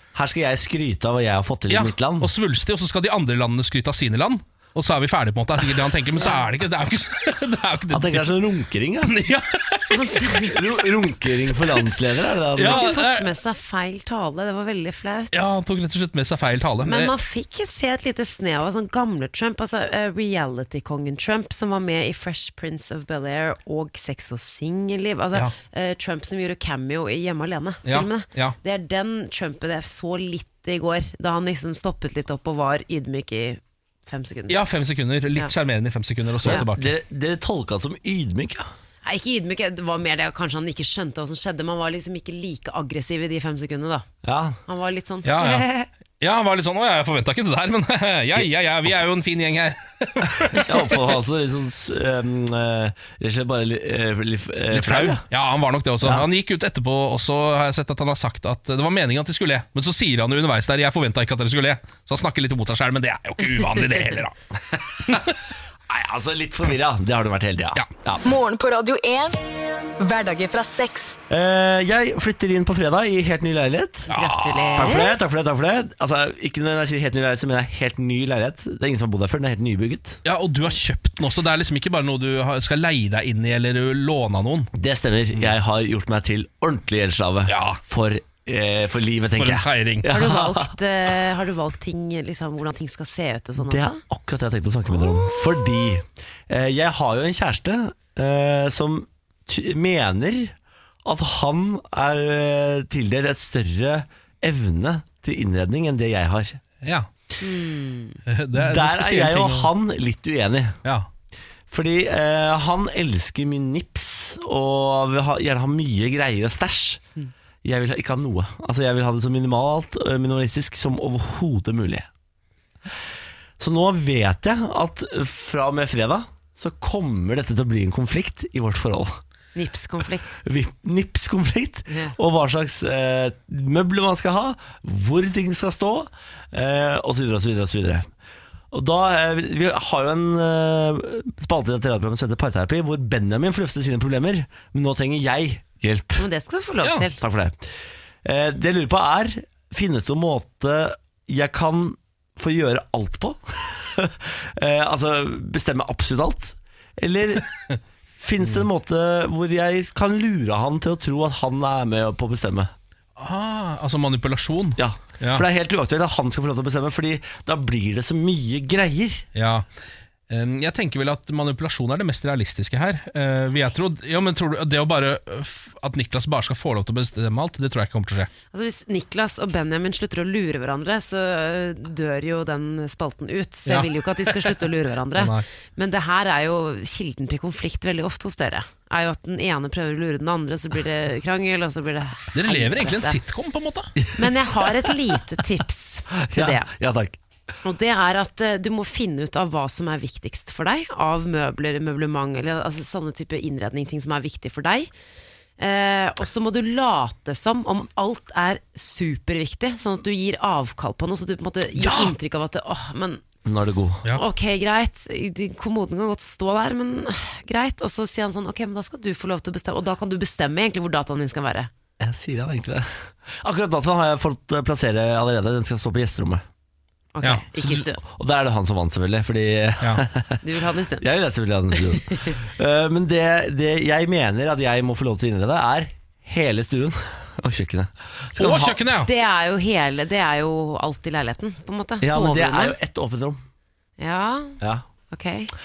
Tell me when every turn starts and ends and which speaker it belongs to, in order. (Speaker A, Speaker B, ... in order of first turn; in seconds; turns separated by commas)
Speaker A: 0.1-2.3, Speaker B: 1.7-8.3, Speaker A: 7.9-9.1, Speaker B: 9.0-10.2, Speaker C: 9.9-10.6, Speaker A: 10.5-12.9, Speaker B: 12.6-13.3, Speaker C: 12.6-15.5, Speaker B: 15.3-17.1, Speaker C: 16.8-34.6, Speaker B: 27.9-28.6, Speaker B: 34.5-36.9, Speaker A: 36.4-38.7, Speaker C: 39.0-44.1, Speaker A: 44.2-44.6, Speaker C: 44.7-45.9, Speaker B: 45.2-45.7, Speaker B: 46.2-51.1, Speaker A: 50.5-55.2, Speaker B: 54.7-64.3, Speaker A: 56.0-56.3, Speaker B: 65.1-65.3, Speaker A: 65.9-68.2, Speaker D: 68.2-69.3, Speaker D: 70.0-71.2, Speaker A: 71.3-74.1, Speaker B: 74.1-74.9, Speaker C: 74.1-75.1, Speaker A: 74.7-80.2, Speaker B: 80.2-84.7, Speaker A: 84.7-90.7, Speaker B: 87.5-87.8, Speaker B: 89.4-90.1, Speaker C: 90.1-94.0, Speaker A: 93.6-106.6, Speaker B: 106.8-107.1, Speaker C: 107.4-108.2, Speaker B: 108.3-109.7, Speaker A: 108.5-110.8, Speaker A: 111.7-117.0, Speaker A: 117.6-122.1, Speaker A: 123.6-129.2, Speaker C: 129.5-130.4, Speaker A: 130.4-138.1, Speaker C: 131.9-132.2, Speaker A: 138.7-146.2, Speaker C: 146.2-147.2, Speaker A: 147.2-147.6, Speaker A: 148.2-157.5, Speaker A: 158.1-162.7, Speaker B: 163.2-165.4, Speaker A: 164.8-169.2, Speaker B: 169.3-169.6, Speaker B: 170.3-178.3, Speaker C: 178.5-193.2, Speaker B: 183.7-184.6, Speaker B: 185.1-185.4, Speaker B: 192.3-193.9, Speaker A: 194.0-194.3, Speaker C: 194.2-196.7, Speaker A: 196.2-197.2, Speaker C: 197.6-204.9, Speaker C: 205.6-213.2, Speaker B: 211.8-212.1, Speaker A: 213.4-214.1, Speaker C: 214.1-221.7, Speaker A: 222.0-226.4, Speaker C: 227.1-228.0, Speaker B: 227.2-227.8, Speaker A: 228.0-230.4, Speaker C: 230.4-231.0, Speaker A: 231.0-238.8, Speaker C: 232.0-232.4, Speaker B: 238.4-239.1, Speaker C: 239.0-242.8, Speaker A: 242.0-243.4, Speaker C: 244.0-244.6, Speaker C: 245.1-245.5